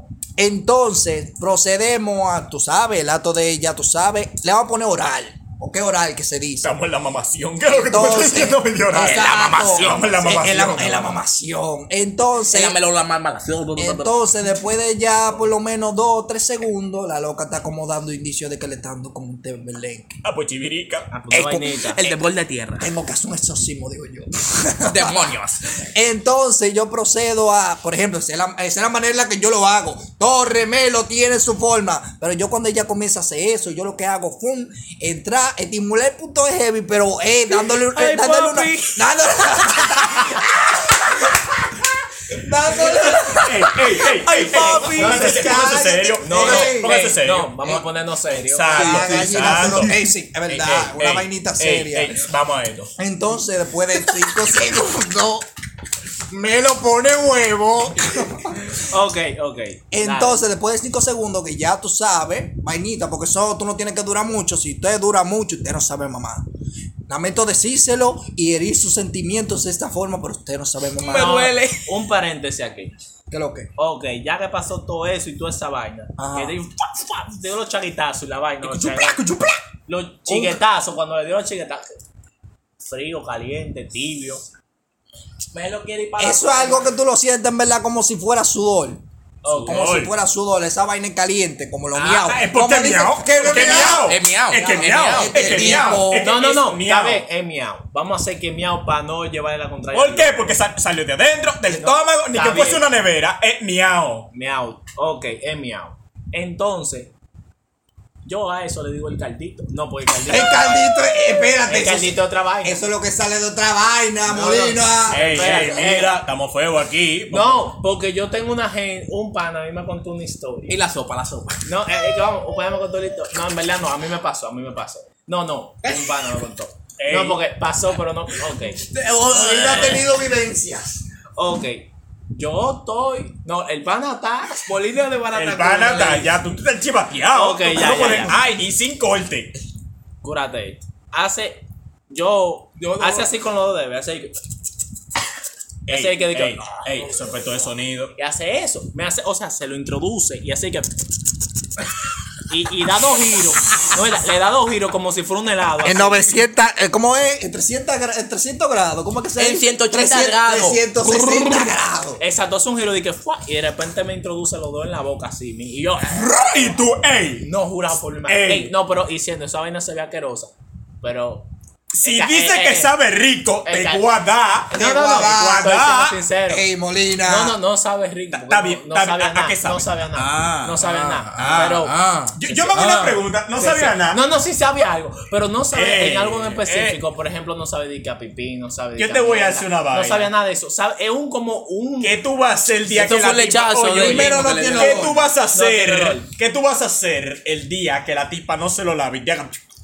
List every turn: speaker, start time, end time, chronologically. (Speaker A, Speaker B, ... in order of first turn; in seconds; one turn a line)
Speaker A: 0.4-6.8
Speaker B: 6.6-11.1
Speaker A: 7.7-12.8
Speaker C: 8.9-11.0
Speaker C: 12.5-14.3
Speaker A: 13.8-20.2
Speaker B: 20.2-21.1
Speaker D: 21.1-22.2
Speaker A: 21.3-21.7
Speaker C: 21.4-22.9
Speaker A: 22.8-25.1
Speaker C: 24.8-25.7
Speaker A: 25.9-41.1
Speaker C: 37.7-39.0
Speaker C: 39.8-40.4
Speaker A: 42.3-47.0
Speaker B: 43.4-49.9
Speaker C: 44.0-45.3
Speaker D: 44.9-45.6
Speaker D: 46.2-49.0
Speaker A: 48.7-52.2
Speaker C: 48.7-49.9
Speaker B: 50.5-52.9
Speaker A: 53.0-55.5
Speaker A: 56.3-58.8
Speaker D: 58.8-60.5
Speaker A: 59.9-66.5
Speaker A: 67.1-71.5
Speaker C: 71.0-71.9
Speaker D: 71.1-72.9
Speaker A: 73.3-73.7
Speaker D: 73.8-79.2
Speaker A: 76.2-76.6
Speaker C: 78.6-79.6
Speaker D: 79.9-82.0
Speaker A: 80.3-80.6
Speaker D: 82.8-84.4
Speaker D: 85.5-86.8
Speaker A: 86.2-89.0
Speaker D: 89.4-89.8
Speaker B: 89.5-90.1
Speaker A: 89.6-94.1
Speaker B: 92.0-97.2
Speaker C: 93.4-95.8
Speaker A: 95.0-96.3
Speaker D: 96.1-100.5
Speaker B: 99.9-104.3
Speaker D: 101.7-102.9
Speaker D: 104.3-107.1
Speaker D: 108.2-110.9
Speaker A: 110.3-115.8
Speaker D: 111.7-112.8
Speaker D: 114.2-116.2
Speaker B: 115.1-117.7
Speaker D: 117.3-120.8
Speaker C: 120.7-121.6
Speaker D: 121.6-128.9
Speaker B: 127.0-127.4
Speaker C: 128.8-130.1
Speaker A: 129.1-131.0
Speaker D: 129.6-130.1
Speaker D: 131.4-134.8
Speaker C: 134.7-136.2
Speaker B: 135.3-139.5
Speaker D: 135.8-136.3
Speaker D: 137.3-138.4
Speaker D: 140.2-144.3
Speaker C: 142.8-143.3
Speaker D: 145.9-147.5
Speaker B: 145.9-148.1
Speaker D: 148.2-150.9
Speaker D: 152.5-156.4
Speaker A: 155.8-162.2
Speaker C: 159.4-161.7
Speaker D: 162.2-166.4
Speaker B: 166.1-167.5
Speaker D: 167.4-171.5
Speaker B: 168.3-168.7
Speaker B: 172.0-176.2
Speaker D: 172.0-172.9
Speaker D: 173.7-174.2
Speaker D: 174.7-176.7
Speaker A: 174.8-175.6
Speaker A: 176.5-177.6
Speaker D: 177.2-182.0
Speaker B: 178.3-180.5
Speaker C: 180.2-182.3
Speaker B: 181.4-181.8
Speaker B: 182.4-184.2
Speaker D: 182.5-192.2
Speaker B: 185.7-187.0
Speaker B: 189.0-190.3
Speaker B: 192.0-199.6
Speaker C: 192.9-195.2
Speaker A: 193.9-195.2
Speaker D: 195.4-196.3